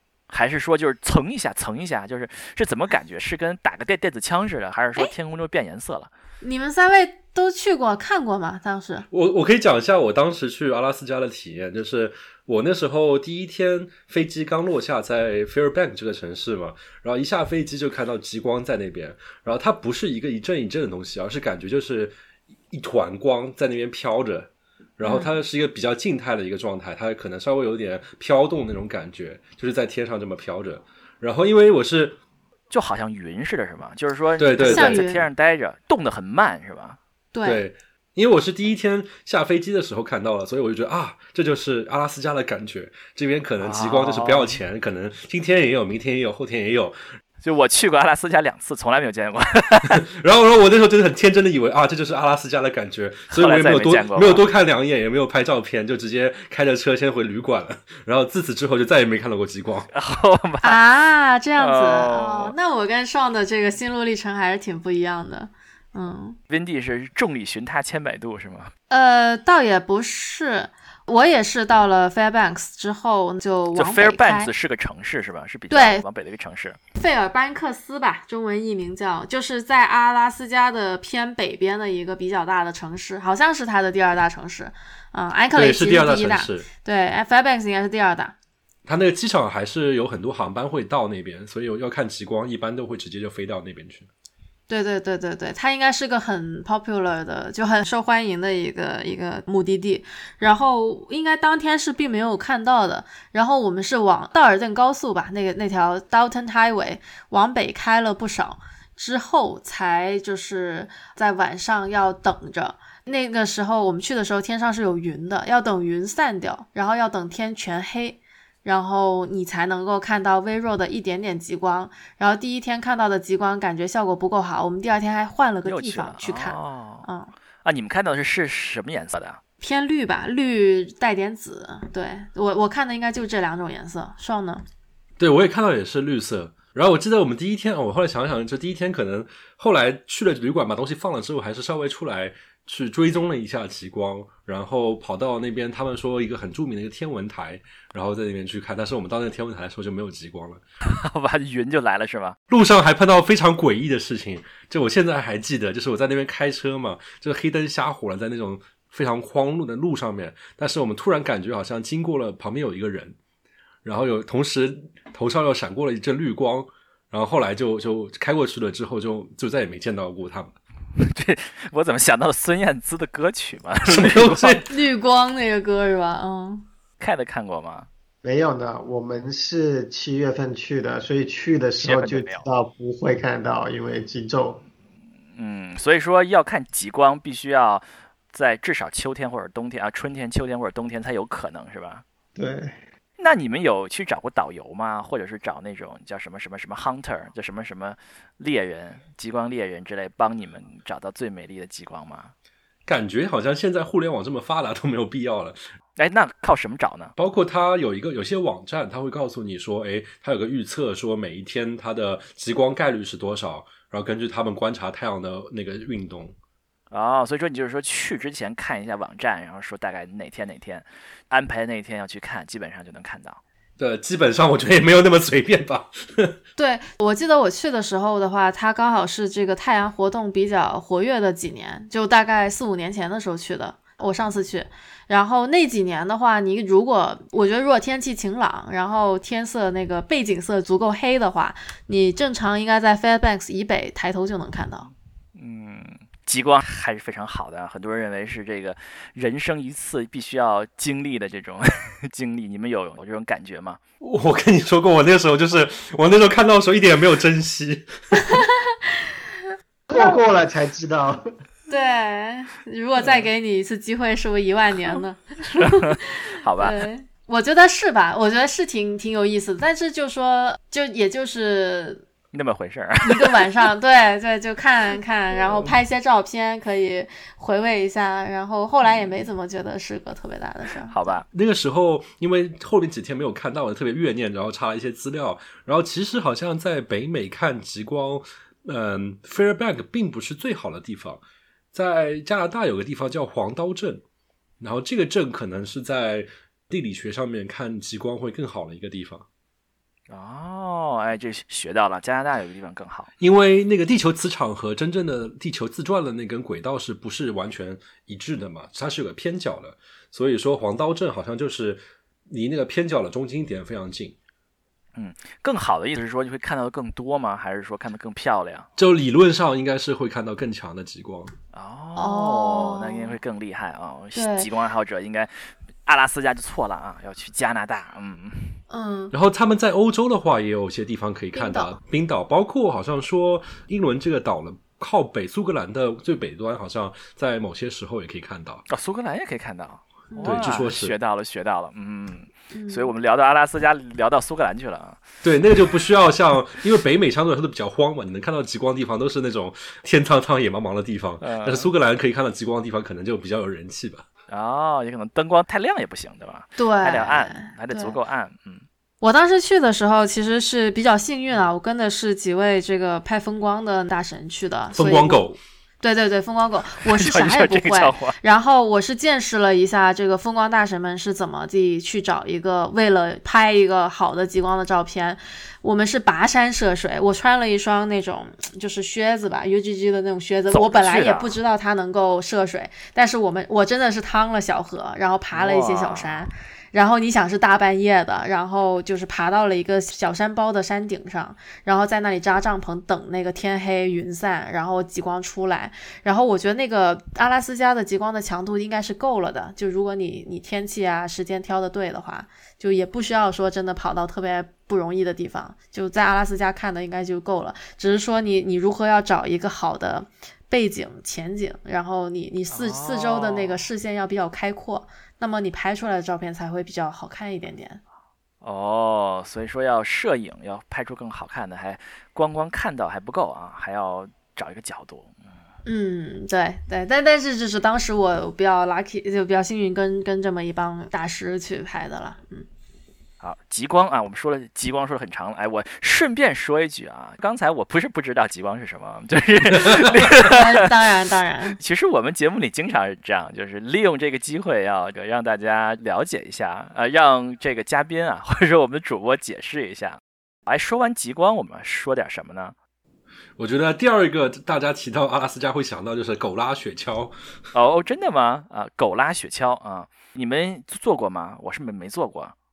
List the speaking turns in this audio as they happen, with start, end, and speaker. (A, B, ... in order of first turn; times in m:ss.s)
0:00.3-0:06.1 A
0:06.4-0:09.1 B
0:09.1-0:22.1 C
0:22.7-0:32.2 C
0:25.0-0:25.3 B
0:32.7-0:37.0 A
0:34.4-0:35.0 C
0:34.6-0:35.2 B
0:37.3-0:37.6 B
0:37.4-0:47.0 C
0:43.6-0:44.6 A
0:47.4-0:50.0 A
0:50.1-0:59.9 C
0:53.3-0:54.4 A
0:59.9-1:00.8 A
1:00.6-1:06.4 B
1:01.6-1:02.5 A
1:06.5-1:08.7 A
1:08.9-1:14.5 B
1:13.7-1:16.8 A
1:15.7-1:16.0 B
1:17.0-1:28.3 B
1:25.5-1:26.7 C
1:28.8-1:34.1 C
1:34.7-2:07.3 B
2:05.6-2:07.1 A
2:07.6-2:09.4 A
2:09.6-2:14.6 B
2:15.2-2:30.6 C
2:30.8-2:32.4 A
2:32.5-2:43.2 C
2:43.8-2:50.6 C
2:51.0-2:54.7 A
2:53.8-2:54.6 C
2:54.7-2:56.6 B
2:57.0-2:57.9 A
2:58.2-3:04.6 D
3:01.8-3:02.4 A
3:05.4-3:12.0 A
3:12.4-3:12.8 D
3:13.2-3:22.3 A
3:22.9-3:25.6 C
3:26.0-3:27.1 A
3:27.2-3:36.3 C
3:36.9-3:43.4 A
3:43.8-3:46.4 C
3:46.6-4:04.9 B
4:05.4-4:13.8 A
4:14.0-4:17.9 C
4:18.2-4:19.1 B
4:19.9-4:21.2 D
4:19.9-4:20.2 B
4:21.7-4:32.0 B
4:23.0-4:23.3 A
4:25.6-4:26.8 A
4:32.3-4:33.5 A
4:33.0-4:41.1 B
4:35.4-4:35.7 A
4:38.8-4:39.1 A
4:40.9-4:41.2 A
4:41.3-4:51.2 C
4:51.7-4:54.0 C
4:54.6-4:59.2 C
5:00.1-5:03.1 A
5:03.2-5:14.1 C
5:15.0-5:18.7 A
5:18.8-5:21.3 C
5:21.5-5:28.6 A
5:22.0-5:23.1 B
5:24.1-5:24.5 B
5:28.7-5:29.1 B
5:29.1-5:38.6 C
5:31.3-5:31.7 B
5:38.7-5:45.0 A
5:40.1-5:40.5 B
5:40.2-5:40.9 C
5:42.5-5:42.9 B
5:45.2-5:54.0 C
5:51.2-5:51.7 A
5:54.3-5:58.6 A
5:56.6-5:58.0 B
5:59.0-6:05.3 B
6:04.7-6:05.4 C
6:05.8-6:57.8 B
6:06.8-6:08.2 A
6:20.5-6:21.4 A
6:25.3-6:26.2 A
6:52.5-6:53.7 A
6:58.4-7:05.1 A
7:05.6-7:12.5 B
7:13.2-7:20.7 A
7:20.1-7:21.6 B
7:21.5-7:32.6 A
7:33.4-7:37.1 C
7:37.5-7:42.3 A